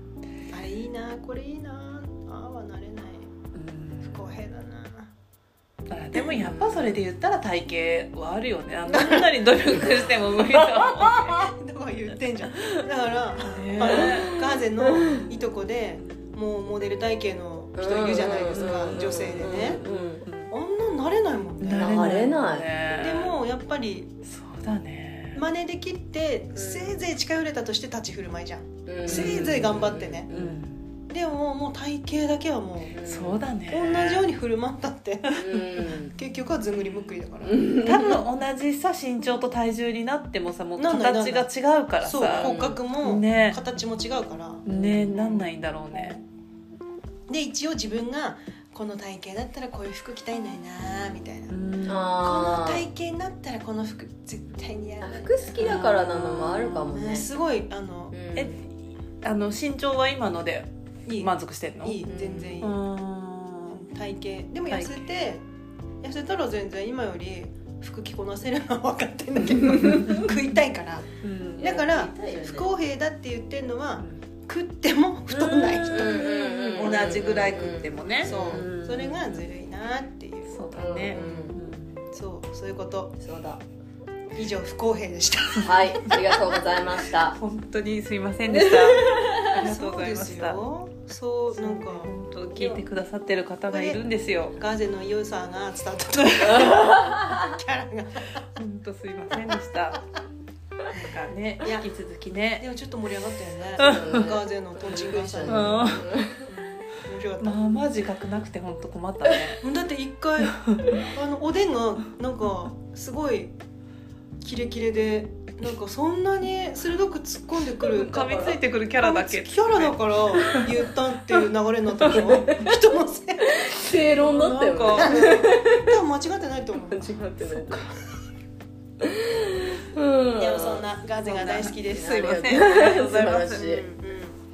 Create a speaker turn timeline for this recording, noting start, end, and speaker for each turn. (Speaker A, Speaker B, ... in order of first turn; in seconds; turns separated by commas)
Speaker A: 0.5-3.3, Speaker B: 3.5-4.3, Speaker A: 4.0-5.1, Speaker B: 5.9-11.4, Speaker C: 6.2-7.0, Speaker A: 8.9-9.3, Speaker C: 10.6-11.1, Speaker A: 11.2-19.8, Speaker B: 13.4-14.3, Speaker C: 13.9-15.3, Speaker C: 17.8-20.2, Speaker B: 18.5-18.9, Speaker B: 19.6-20.5, Speaker A: 20.5-22.2, Speaker B: 21.6-23.4, Speaker C: 21.8-22.7, Speaker A: 22.9-24.1, Speaker B: 24.2-25.4, Speaker A: 25.3-30.3, Speaker C: 26.5-27.0, Speaker C: 28.9-30.6, Speaker B: 29.0-30.9, Speaker A: 31.1-33.0, Speaker C: 32.8-33.5, Speaker B: 33.0-34.3, Speaker A: 33.7-37.6, Speaker C: 35.3-36.1, Speaker B: 35.4-35.7, Speaker C: 37.4-38.2, Speaker B: 37.8-43.6, Speaker A: 40.8-45.5, Speaker C: 42.4-42.8, Speaker B: 44.6-46.2, Speaker C: 44.7-45.2, Speaker A: 47.3-51.5, Speaker B: 51.5-52.3, Speaker C: 51.8-52.8, Speaker A: 52.2-58.1, Speaker C: 55.0-57.3, Speaker B: 55.6-56.9, Speaker C: 58.1-58.6, Speaker B: 58.3-58.7, Speaker B: 59.2-62.0, Speaker A: 61.1-62.8, Speaker C: 62.0-62.6, Speaker B: 62.6-63.9, Speaker A: 63.8-65.4, Speaker B: 64.7-65.1, Speaker A: 66.0-77.2, Speaker B: 71.2-71.8, Speaker C: 71.6-72.8, Speaker B: 75.3-79.4, Speaker C: 75.9-78.7, Speaker A: 78.2-81.4, Speaker B: 80.5-82.1, Speaker C: 80.7-81.6, Speaker A: 82.1-83.2, Speaker C: 83.2-83.6, Speaker A: 84.3-86.3, Speaker C: 85.6-87.4, Speaker B: 87.3-90.6, Speaker C: 88.5-89.5, Speaker A: 89.5-92.8, Speaker B: 91.5-94.6, Speaker A: 93.7-94.0, Speaker A: 94.5-98.3, Speaker C: 96.6-97.4, Speaker B: 98.5-100.1, Speaker B: 100.9-102.6, Speaker A: 102.6-107.8, Speaker C: 103.8-106.5, Speaker B: 105.4-106.0, Speaker B: 107.4-109.6, Speaker A: 109.6-113.5, Speaker B: 110.5-110.9, Speaker A: 114.4-123.5, Speaker B: 117.8-120.7, Speaker C: 122.1-122.6, Speaker C: 123.4-125.8, Speaker B: 124.1-125.3, Speaker A: 124.9-127.9, Speaker C: 126.7-127.8, Speaker C: 129.0-133.8, Speaker A: 130.3-132.3, Speaker B: 131.3-133.7, Speaker A: 133.5-134.4